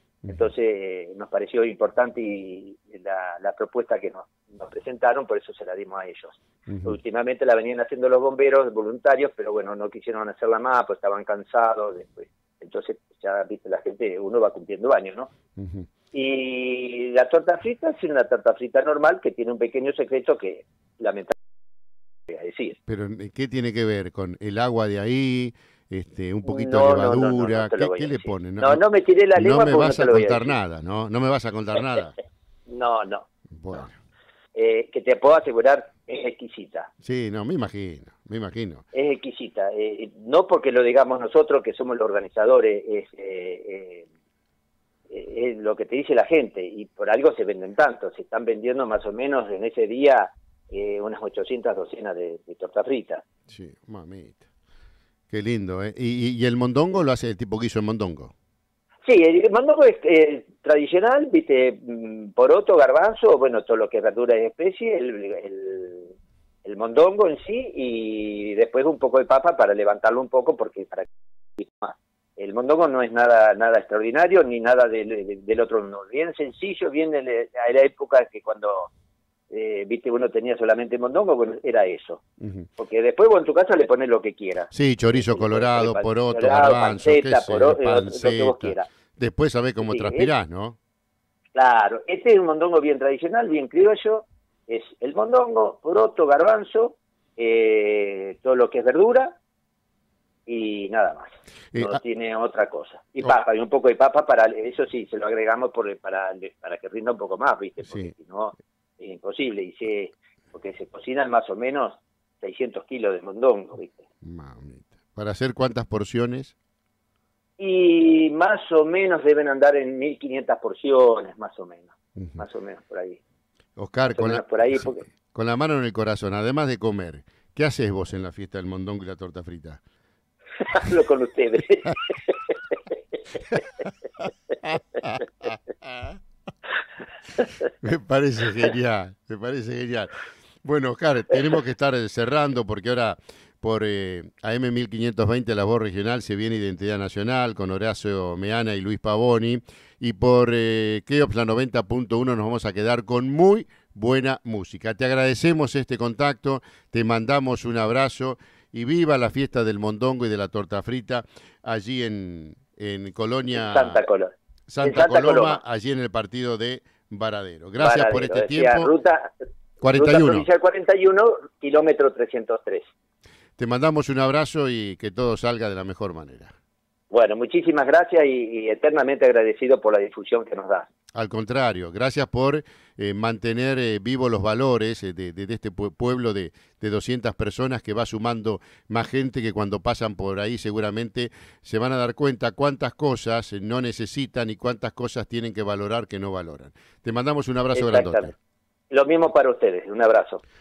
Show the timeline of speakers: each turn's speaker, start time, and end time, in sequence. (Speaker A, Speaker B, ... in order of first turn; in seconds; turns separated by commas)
Speaker A: 0.3-15.3, Speaker B: 6.7-6.9, Speaker B: 15.6-15.9, Speaker A: 16.1-21.4, Speaker A: 22.3-22.8, Speaker B: 22.9-28.8, Speaker A: 26.4-30.6, Speaker B: 29.4-32.2, Speaker A: 32.7-33.3, Speaker B: 33.5-34.0, Speaker A: 34.5-36.9, Speaker B: 37.0-38.9, Speaker A: 38.9-44.1, Speaker A: 45.1-53.2, Speaker B: 53.5-54.4, Speaker B: 55.3-58.3, Speaker A: 59.0-66.1, Speaker A: 66.7-78.9, Speaker A: 79.5-82.2, Speaker B: 82.4-82.7, Speaker A: 82.8-88.9, Speaker B: 84.7-90.8, Speaker A: 89.8-90.3, Speaker A: 91.5-99.4, Speaker A: 100.5-114.0, Speaker B: 101.7-102.0, Speaker B: 107.9-108.1, Speaker B: 114.2-116.5, Speaker A: 117.6-123.2, Speaker B: 122.2-122.4, Speaker B: 123.8-129.8, Speaker A: 124.1-125.1, Speaker A: 130.6-132.6, Speaker B: 134.7-136.2, Speaker B: 137.8-164.0, Speaker A: 163.5-165.6, Speaker B: 164.7-168.9, Speaker A: 167.8-169.4, Speaker B: 169.8-170.5, Speaker A: 169.9-172.8, Speaker B: 173.6-176.5, Speaker A: 177.1-180.9, Speaker B: 181.2-198.3, Speaker A: 197.7-198.3, Speaker A: 198.9-200.4